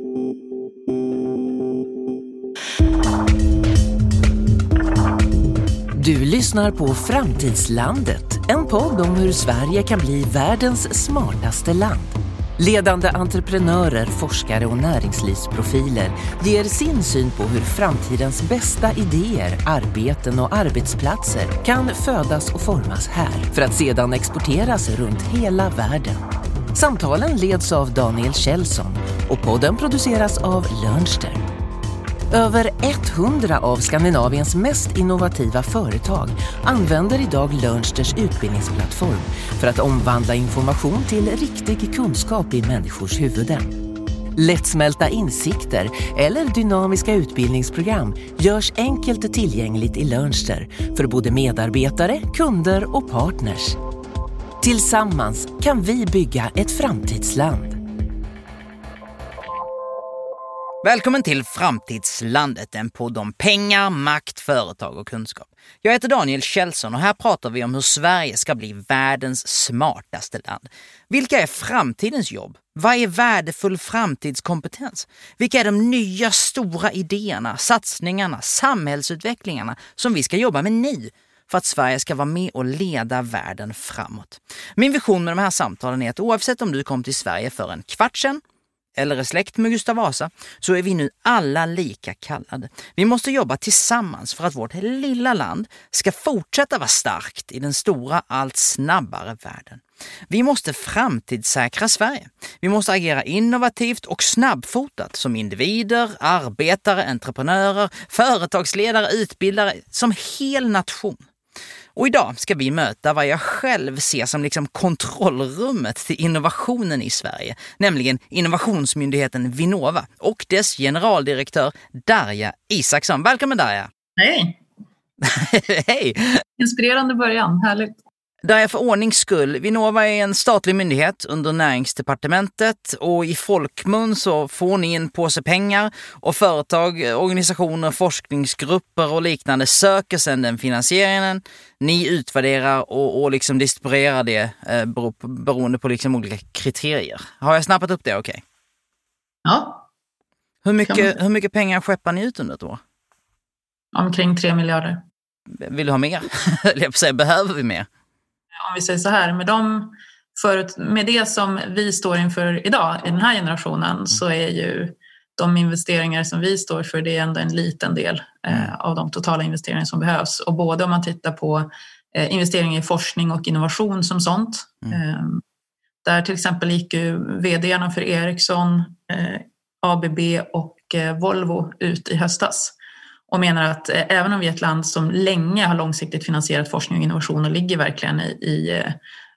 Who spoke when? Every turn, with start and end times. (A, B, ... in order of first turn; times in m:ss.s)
0:05.9-0:31.4 A
0:32.3-0:43.8 A
0:44.3-0:53.8 A
0:54.6-0:57.8 A
1:00.8-1:28.4 B
1:29.0-1:51.2 B
1:51.9-2:03.9 B
2:04.2-2:04.6 C
2:05.2-2:06.4 B
2:06.6-2:08.0 C
2:08.4-2:28.4 B
2:29.4-2:29.8 C
2:30.6-2:32.8 B
2:30.8-2:31.1 C
2:33.9-2:35.0 C
2:35.6-2:37.9 B
2:38.6-2:55.4 C
2:56.0-3:02.7 C
3:03.3-3:09.0 C